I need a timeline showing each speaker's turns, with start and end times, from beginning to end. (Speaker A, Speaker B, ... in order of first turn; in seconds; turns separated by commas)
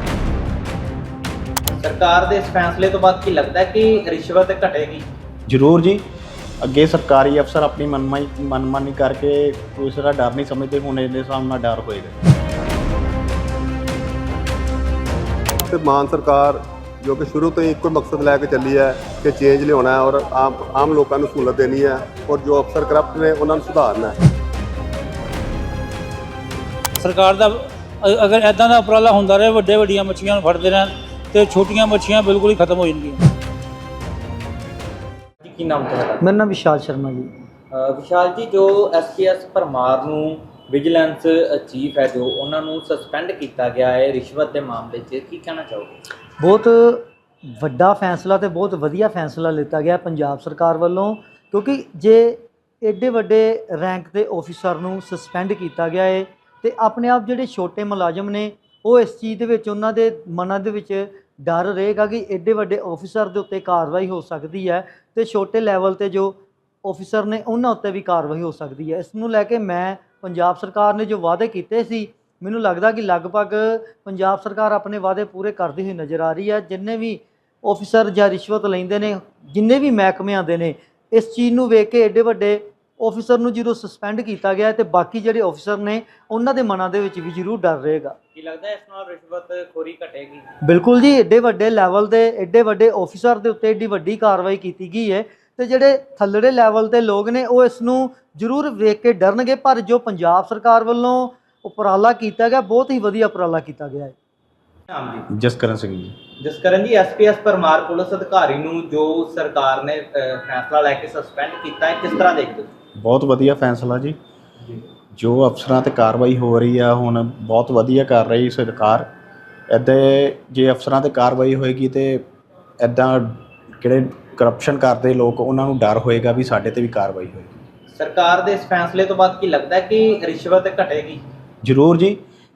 Speaker A: 1.8-5.0, Speaker B: 5.5-6.0, Speaker B: 6.6-12.2, Speaker C: 15.7-24.2, Speaker D: 27.0-33.3, Speaker A: 35.4-36.2, Speaker E: 36.2-37.3, Speaker A: 37.7-46.0, Speaker E: 46.4-88.2, Speaker A: 88.4-90.5, Speaker E: 90.7-104.2, Speaker A: 104.9-105.3, Speaker B: 105.3-106.2, Speaker A: 106.4-112.7, Speaker B: 113.0-114.2, Speaker B: 115.2-119.1, Speaker B: 119.7-122.2, Speaker B: 122.8-127.6, Speaker A: 127.9-131.2, Speaker B: 131.6-132.2